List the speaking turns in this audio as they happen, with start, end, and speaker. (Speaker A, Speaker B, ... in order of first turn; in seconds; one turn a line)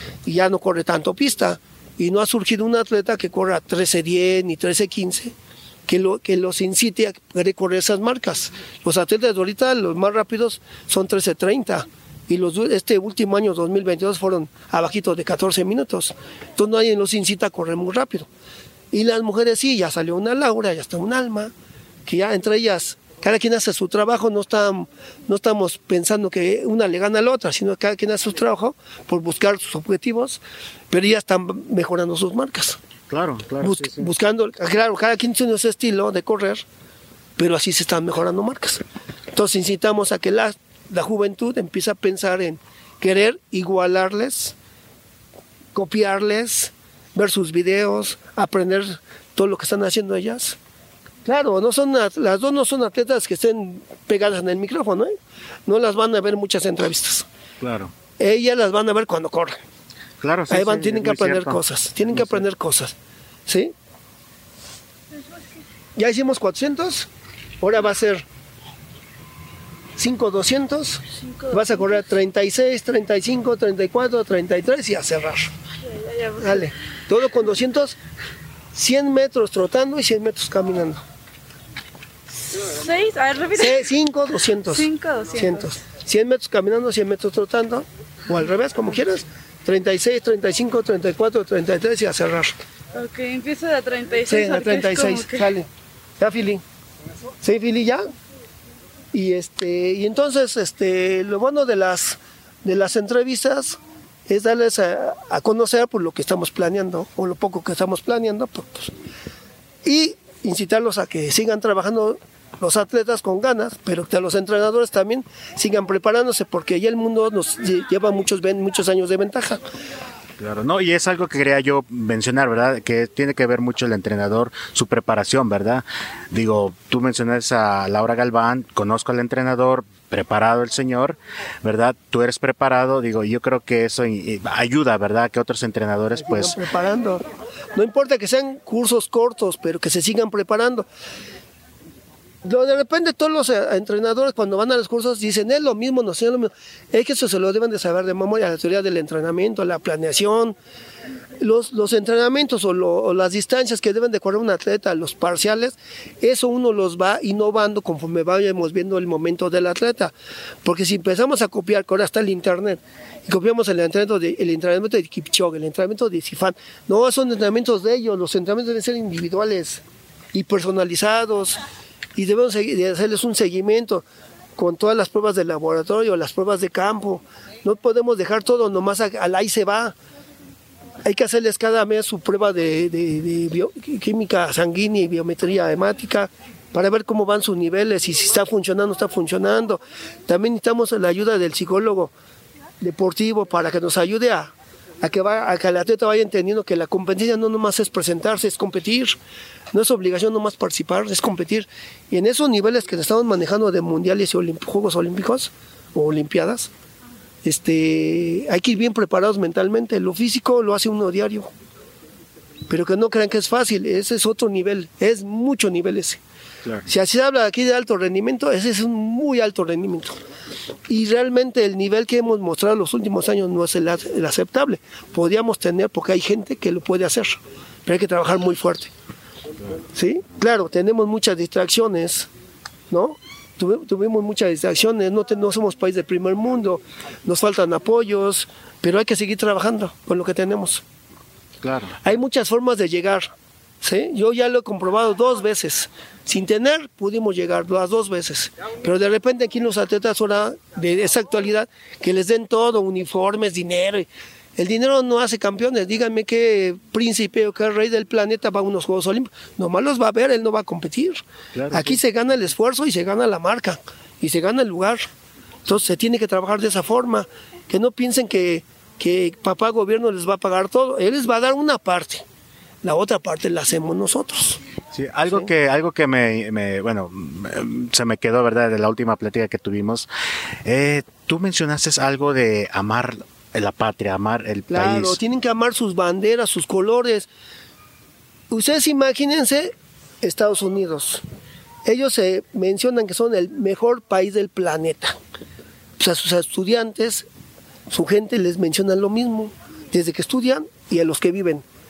Speaker A: 0.2-5.3
Speaker A: 5.9-18.3
Speaker A: 18.9-21.5
Speaker A: 22.1-32.8
Speaker B: 33.1-34.1
Speaker A: 33.6-36.6
Speaker A: 37.4-44.5
Speaker A: 45.7-50.6
Speaker A: 51.2-55.1
Speaker A: 55.6-57.2
Speaker B: 57.6-57.9
Speaker A: 58.2-59.6
Speaker B: 60.2-62.4
Speaker A: 60.5-62.9
Speaker A: 63.5-63.7
Speaker A: 66.0-67.1
Speaker A: 67.6-68.2
Speaker A: 70.0-75.5
Speaker C: 71.2-71.9
Speaker C: 75.8-76.7
Speaker A: 76.4-78.0
Speaker A: 78.7-81.0
Speaker C: 82.4-83.8
Speaker A: 83.5-92.6
Speaker C: 84.7-85.6
Speaker C: 92.9-95.5
Speaker A: 94.2-96.6
Speaker A: 97.4-98.0
Speaker A: 99.1-108.9
Speaker A: 109.8-119.6
Speaker B: 120.4-136.6
Speaker A: 136.1-140.9
Speaker A: 142.4-150.6
Speaker A: 151.4-160.1
Speaker A: 160.6-169.8
Speaker A: 170.3-171.6
Speaker A: 172.1-174.0
Speaker A: 174.6-179.9
Speaker A: 181.0-192.1
Speaker A: 192.8-199.2
Speaker A: 199.7-206.7
Speaker A: 207.4-211.5
Speaker A: 212.7-216.2
Speaker B: 216.6-216.9
Speaker A: 216.9-220.2
Speaker A: 220.9-228.9
Speaker A: 229.9-232.3
Speaker A: 232.9-240.8
Speaker B: 241.6-242.1
Speaker A: 242.0-265.1
Speaker B: 261.5-262.0
Speaker A: 265.6-272.2
Speaker A: 272.8-274.6
Speaker B: 274.9-280.1
Speaker B: 280.6-285.2
Speaker A: 284.7-287.3
Speaker A: 288.5-291.2
Speaker A: 291.8-295.2
Speaker A: 296.0-297.3
Speaker A: 297.9-301.6